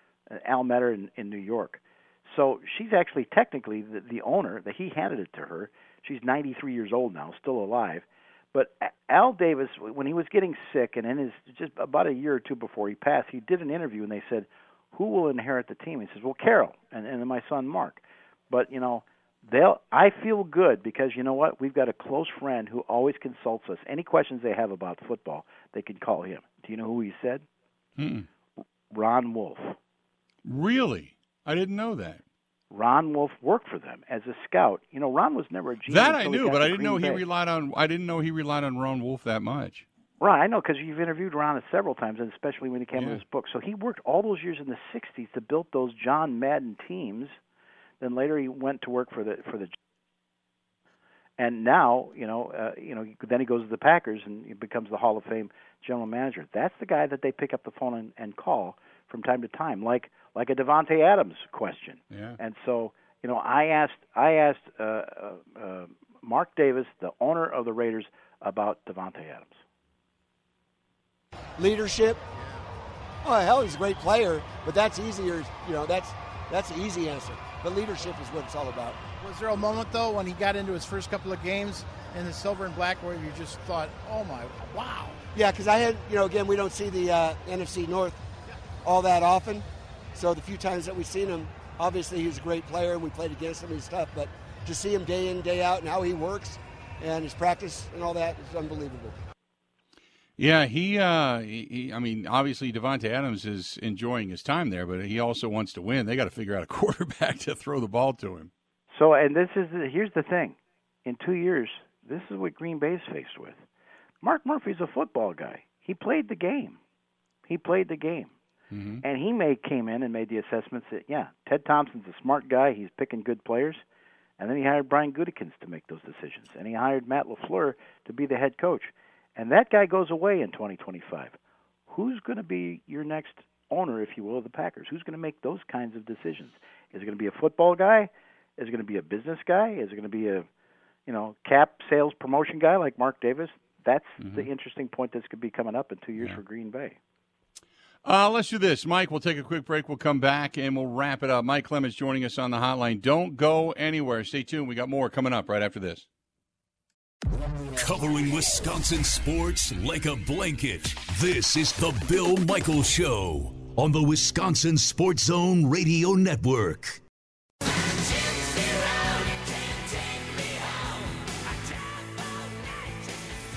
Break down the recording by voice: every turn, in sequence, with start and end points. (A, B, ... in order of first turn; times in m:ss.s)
0:00.3-0:27.4 A
0:28.0-0:28.3 B
0:28.9-0:29.8 A
0:30.4-0:32.2 B
0:32.7-0:37.2 A
0:35.9-0:39.8 B
0:40.2-0:47.4 A
0:42.9-0:43.2 B
0:48.0-0:49.8 A
0:51.4-1:09.6 A
1:02.1-1:02.4 B
1:11.6-1:12.2 C
1:12.3-1:12.7 D
1:13.2-1:19.0 C
1:19.2-1:25.2 D
1:25.3-1:28.2 C
1:28.8-1:39.2 C
1:40.4-1:48.5 B
1:48.9-1:53.6 A
1:54.2-1:56.8 A
1:57.5-1:58.3 A
1:58.7-1:59.0 B
1:59.0-2:03.8 A
2:04.4-2:11.4 A
2:11.9-2:20.5 A
2:21.0-2:27.0 A
2:24.2-2:24.5 B
2:28.0-2:36.0 B
2:37.7-2:47.0 E